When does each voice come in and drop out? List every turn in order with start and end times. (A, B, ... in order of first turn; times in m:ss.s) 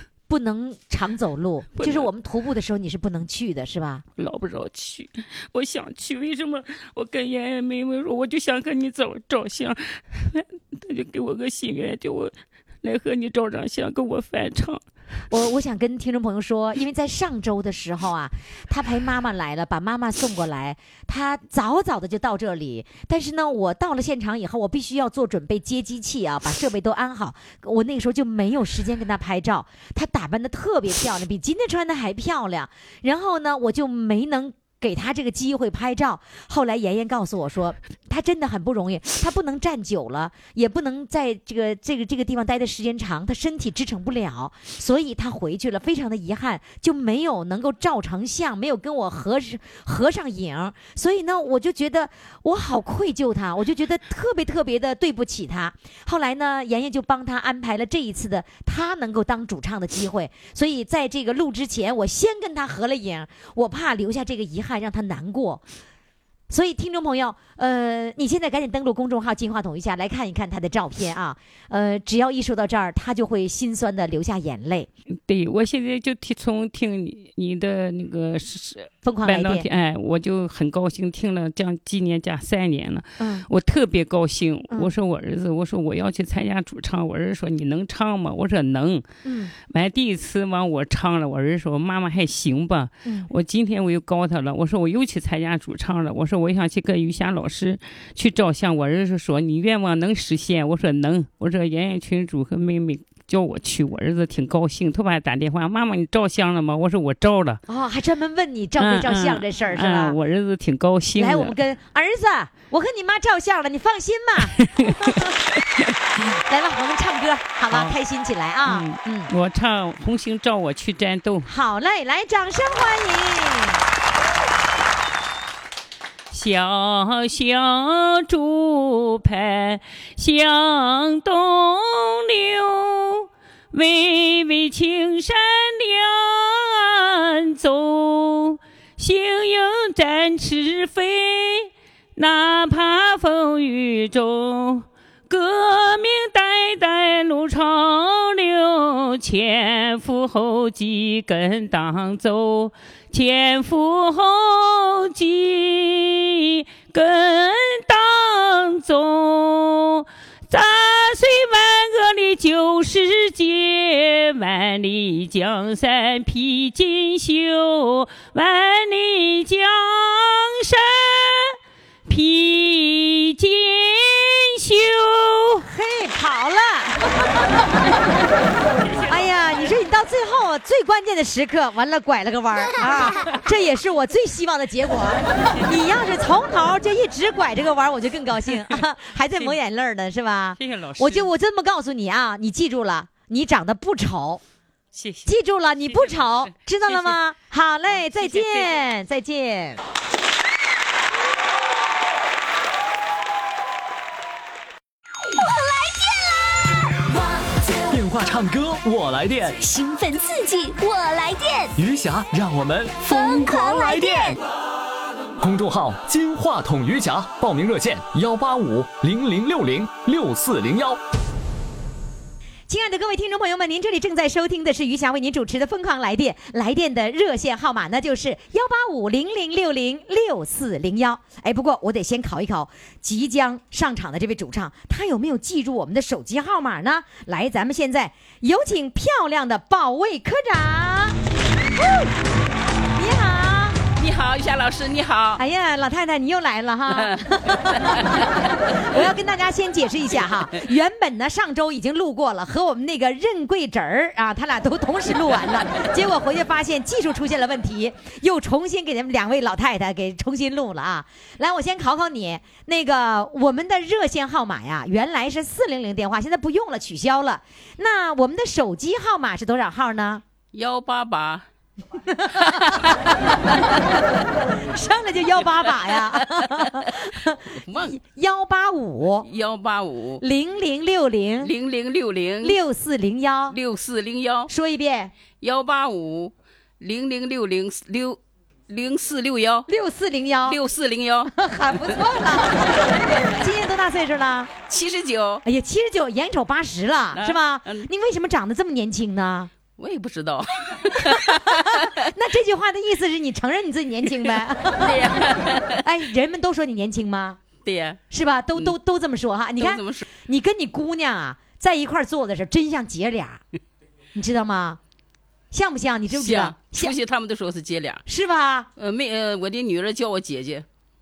0:00.3-0:04.0 A
0:01.8-0:02.1 B
0:04.2-0:14.8 B
0:15.3-1:05.6 A
1:06.5-1:14.9 A
1:15.3-1:29.0 B
1:19.0-1:19.7 A
1:23.2-1:23.4 A
1:29.2-1:29.5 A
1:29.6-1:47.6 B
1:47.7-1:50.2 A
1:48.8-1:51.5 B
1:51.2-1:55.3 A
1:54.8-1:55.1 B
1:56.4-1:59.3 A
1:58.7-2:01.5 B
2:01.5-2:03.8 A
2:06.3-2:55.7 B
2:55.6-2:57.5 A
2:58.8-2:59.8 B
2:59.1-3:14.4 A
3:02.8-3:03.4 B
3:10.6-3:11.3 B
3:14.9-3:17.2 B
3:15.3-3:19.8 A
3:18.0-3:18.8 B
3:25.3-3:27.9 C
3:27.9-3:29.6 D
3:29.6-3:31.7 C
3:31.8-3:34.4 D
3:33.0-3:34.4 C
3:35.4-3:41.0 D
3:42.7-4:01.2 A
4:03.0-4:03.8 A
4:04.0-4:05.4 E
4:05.4-4:30.2 A
4:06.9-4:09.0 E
4:30.5-4:31.4 E
4:32.1-4:32.9 A
4:32.3-4:33.6 E
4:33.5-4:34.0 A
4:34.7-4:39.3 A
4:35.9-4:36.9 E
4:37.6-4:38.0 E
4:39.3-4:40.2 E
4:40.2-4:41.5 A
4:41.4-4:42.6 E
4:42.4-4:43.6 A
4:43.5-4:44.5 E
4:44.5-4:45.1 A
4:45.4-4:49.7 E
4:49.7-4:50.6 A
4:50.5-4:51.3 E
4:51.3-4:54.5 A
4:54.7-4:55.4 E
4:55.4-4:59.5 A
4:57.1-4:57.9 E
4:59.8-5:01.9 E
5:01.1-5:05.0 A
5:04.8-5:05.8 E
5:05.8-5:07.4 A
5:07.6-5:08.0 E
5:08.1-5:13.4 A
5:09.6-5:10.1 E
5:14.2-5:14.8 A
5:15.5-5:17.0 A
5:16.1-5:18.0 E
5:18.1-5:18.7 A
5:18.8-5:20.6 E